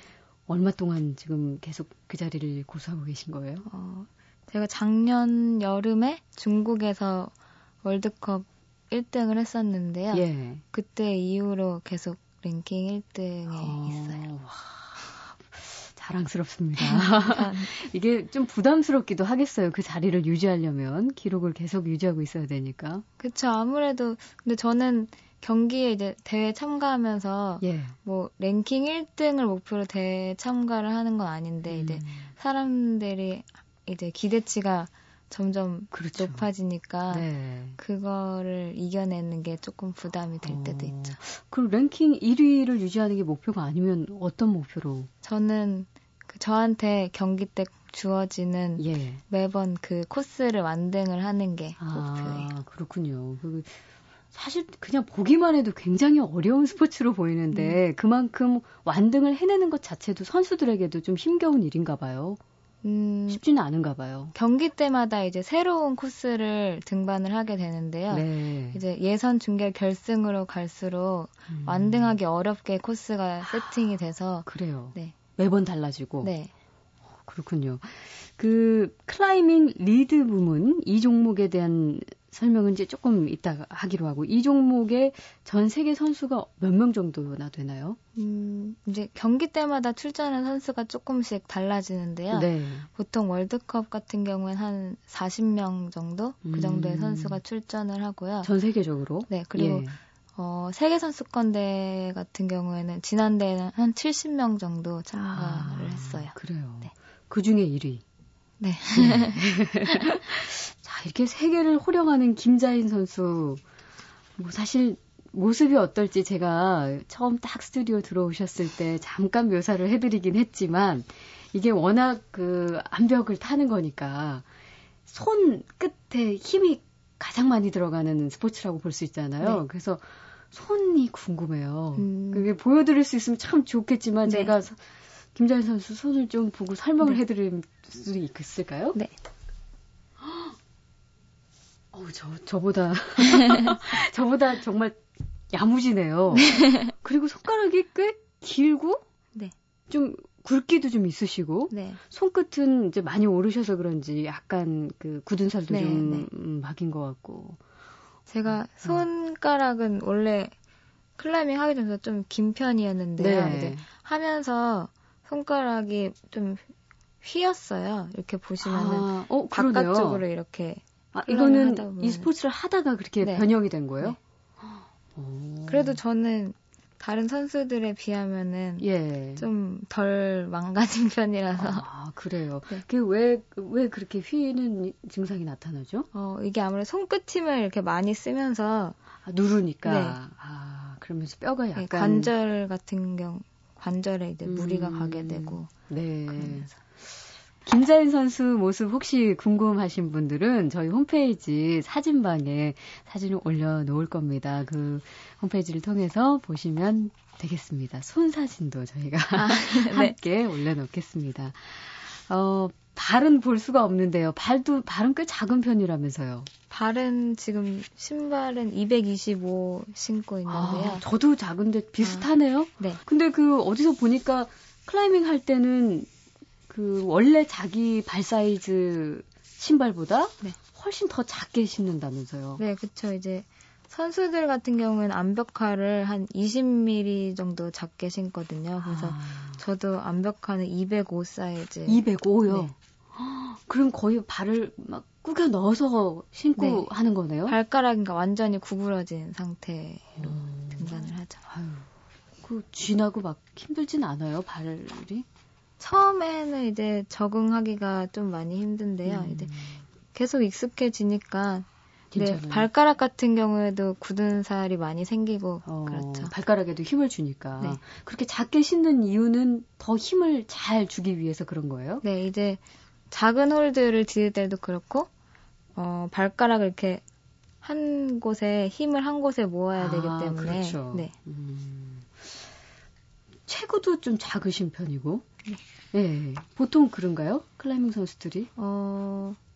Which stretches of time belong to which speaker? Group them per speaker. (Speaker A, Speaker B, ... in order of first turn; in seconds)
Speaker A: 0.5-3.7, 10.1-10.6, 13.5-23.0, 27.6-28.0, 31.7-32.3, 35.9-36.5, 37.1-37.8, 40.5-45.1, 48.8-49.2, 51.8-53.8, 54.3-62.4, 63.3-64.3, 68.1-68.8, 71.5-72.2, 73.4-73.7, 74.5-76.3, 77.2-88.0, 92.3-92.9, 96.4-97.4, 98.4-100.0, 105.1-108.0, 109.0-113.6, 114.4-124.5, 125.1-134.8, 135.3-139.0, 140.2-140.5, 141.9-149.0, 149.9-157.6, 163.2-163.8, 168.6-170.2, 171.1-174.2, 175.2-176.0, 178.8-179.4, 181.6-186.1, 189.2-192.3, 194.5-197.1, 197.7-216.5, 220.5-226.1, 226.7-232.6, 238.8-239.6, 241.9-247.6, 250.2-251.9, 252.4-255.3, 259.1-259.8, 262.1-262.7, 265.7-272.0, 279.8-282.3, 283.5-285.2, 285.9-288.5
Speaker B: 3.7-14.2, 16.8-17.7, 23.2-37.3, 37.8-41.2, 45.2-52.5, 57.5-57.8, 62.8-63.4, 64.3-75.2, 76.2-76.5, 88.2-98.5, 99.3-106.3, 108.6-109.4, 132.0-132.5, 134.3-134.5, 146.5-146.9, 151.7-152.0, 155.7-156.3, 158.3-160.5, 161.2-166.6, 167.2-172.3, 173.2-173.5, 175.7-178.9, 179.4-181.9, 186.1-189.0, 189.8-190.2, 191.8-195.7, 196.3-196.7, 209.3-210.2, 216.7-221.0, 232.6-242.7, 246.6-246.9, 247.5-251.4, 255.8-259.6, 260.1-266.3, 272.0-275.1, 275.8-277.0, 277.6-281.1, 288.6-289.4